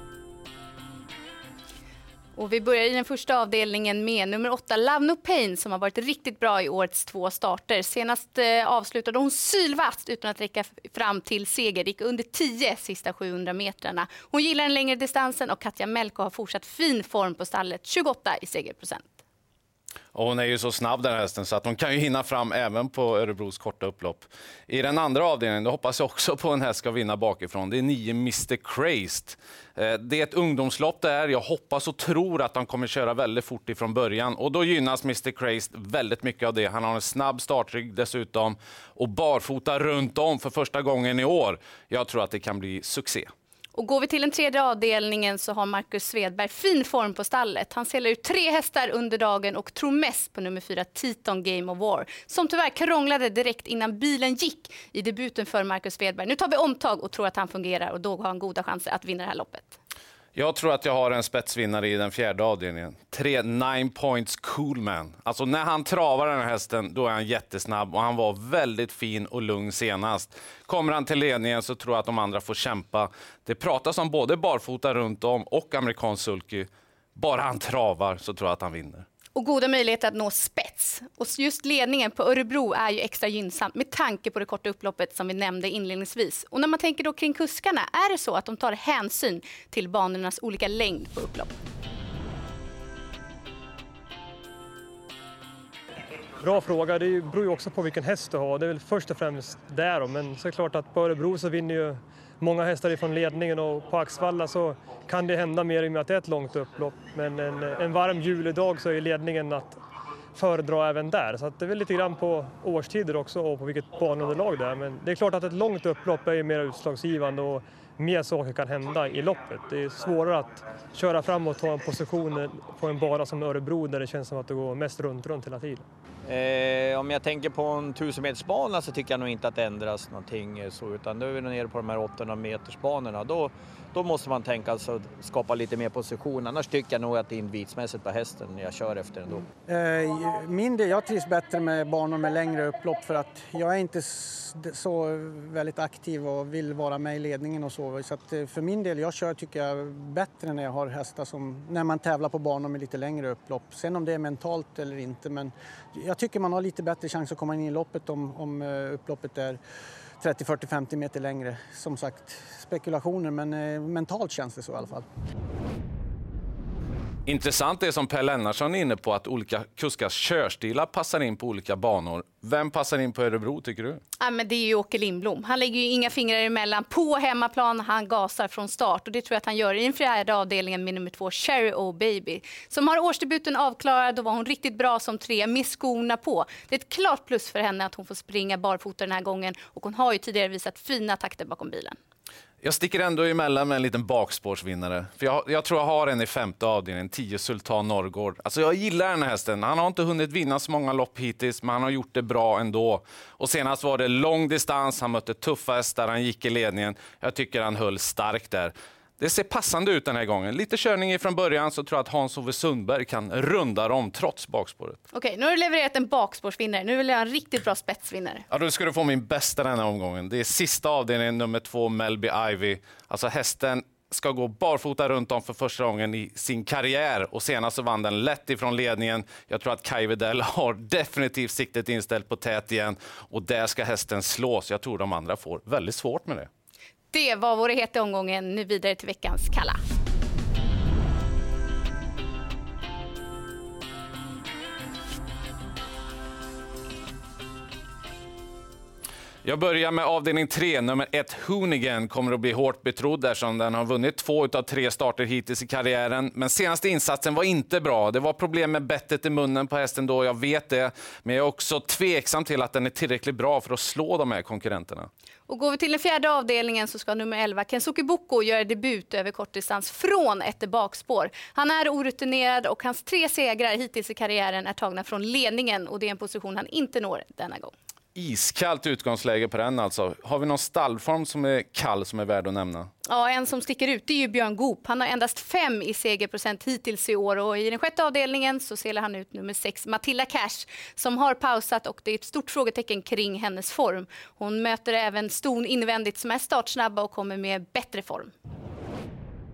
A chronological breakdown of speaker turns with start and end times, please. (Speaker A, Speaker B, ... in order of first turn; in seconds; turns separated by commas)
Speaker A: 2.3-19.1, Speaker B: 20.1-43.3, Speaker A: 43.7-59.8, Speaker B: 60.3-79.0, Speaker A: 79.3-91.5, Speaker C: 96.4-109.8, Speaker C: 110.3-125.8, Speaker D: 126.2-139.5, Speaker E: 139.7-159.6, Speaker E: 160.2-165.1, Speaker B: 167.2-174.0, Speaker A: 174.2-192.0, Speaker B: 192.6-215.0, Speaker A: 215.1-218.4, Speaker B: 218.5-236.5, Speaker A: 237.1-239.8, Speaker B: 249.4-265.1, Speaker A: 265.5-277.7, Speaker B: 278.1-282.9, Speaker A: 283.1-298.3